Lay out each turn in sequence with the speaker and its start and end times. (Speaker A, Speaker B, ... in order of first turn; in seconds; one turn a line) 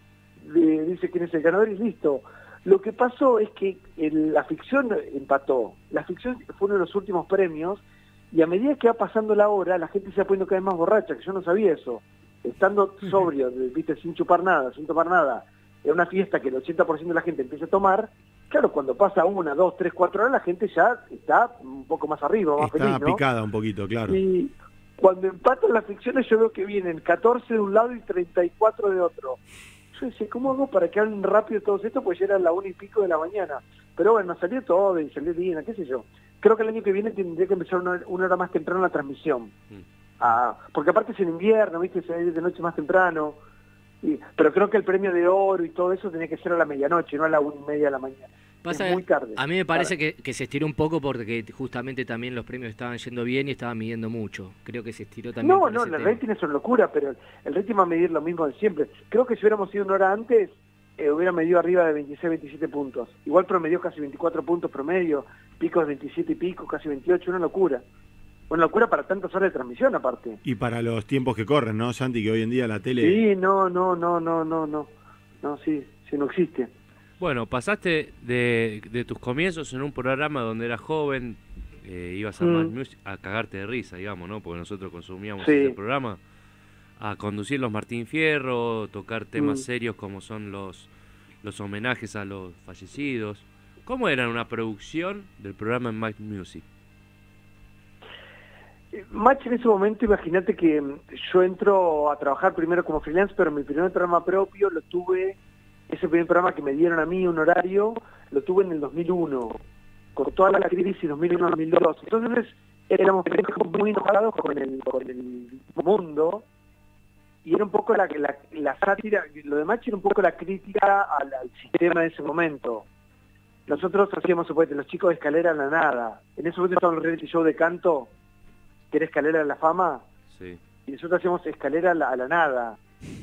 Speaker A: 0.4-23.2
Speaker B: 22.6-24.2
Speaker A: 24.1-29.4
Speaker A: 29.9-39.5
Speaker A: 40.2-43.4
Speaker A: 44.0-49.9
Speaker C: 48.6-56.2
Speaker A: 55.4-67.8
Speaker A: 68.5-70.4
Speaker B: 70.4-73.2
Speaker A: 73.0-74.9
Speaker A: 75.4-76.7
Speaker D: 77.2-86.2
Speaker A: 82.4-82.7
Speaker A: 85.4-85.8
Speaker D: 87.0-90.9
Speaker A: 89.4-89.6
Speaker D: 91.4-96.6
Speaker A: 98.9-105.4
Speaker A: 105.9-109.6
Speaker A: 110.2-116.4
Speaker A: 117.4-122.8
Speaker A: 123.7-128.1
Speaker A: 128.9-130.0
Speaker D: 130.3-130.6
Speaker A: 130.8-132.8